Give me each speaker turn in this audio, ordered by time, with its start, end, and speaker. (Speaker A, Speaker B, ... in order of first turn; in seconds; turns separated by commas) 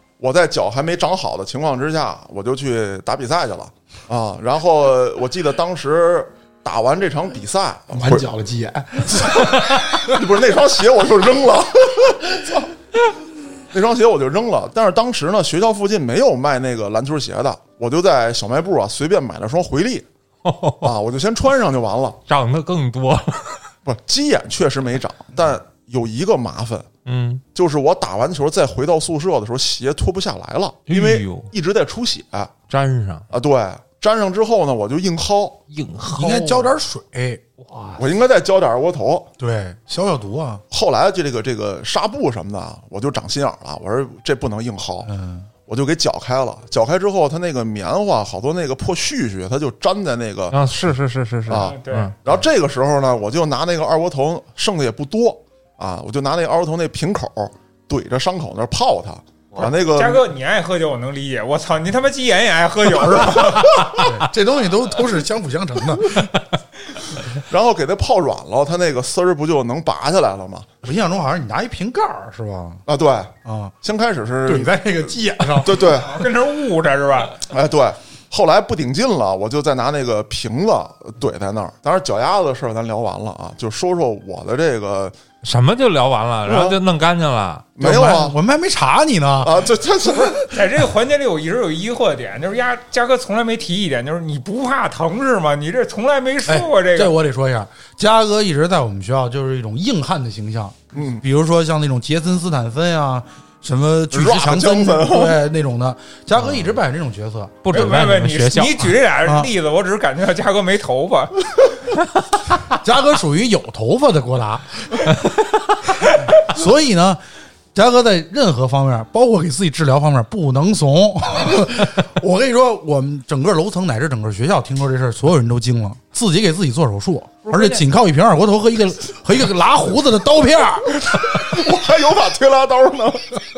Speaker A: 0.2-8.3, Speaker B: 7.9-10.0, Speaker A: 9.1-12.4, Speaker A: 13.7-20.1, Speaker C: 20.4-20.9, Speaker A: 20.8-22.2, Speaker C: 22.3-23.7, Speaker A: 23.9-26.9, Speaker C: 27.1-27.4, Speaker A: 27.5-32.5, Speaker C: 30.9-31.5, Speaker C: 32.7-33.3, Speaker A: 33.3-35.6, Speaker C: 35.7-36.7, Speaker B: 36.1-37.6, Speaker C: 37.7-38.0, Speaker A: 38.0-39.3, Speaker B: 39.4-40.6, Speaker A: 40.7-45.1, Speaker B: 45.0-45.5, Speaker A: 45.7-50.6, Speaker C: 50.5-52.1, Speaker A: 51.5-60.2, Speaker D: 51.5-52.1, Speaker D: 59.6-64.1, Speaker B: 63.5-66.3, Speaker A: 67.4-70.7, Speaker B: 70.8-72.8, Speaker A: 72.9-75.0, Speaker B: 73.5-73.7, Speaker B: 74.5-76.0, Speaker A: 75.5-76.2, Speaker D: 75.8-77.5, Speaker A: 77.5-85.2, Speaker C: 85.4-87.7, Speaker A: 86.5-86.8, Speaker A: 87.8-88.3, Speaker B: 87.8-89.7, Speaker A: 89.4-90.5, Speaker D: 90.5-97.2, Speaker B: 96.5-107.7, Speaker A: 100.9-101.2, Speaker A: 104.1-105.4, Speaker C: 106.4-106.8, Speaker C: 107.6-109.0, Speaker D: 107.7-111.5, Speaker B: 109.2-109.5, Speaker B: 112.7-115.1, Speaker B: 116.4-117.2, Speaker B: 117.7-131.4, Speaker A: 131.3-133.4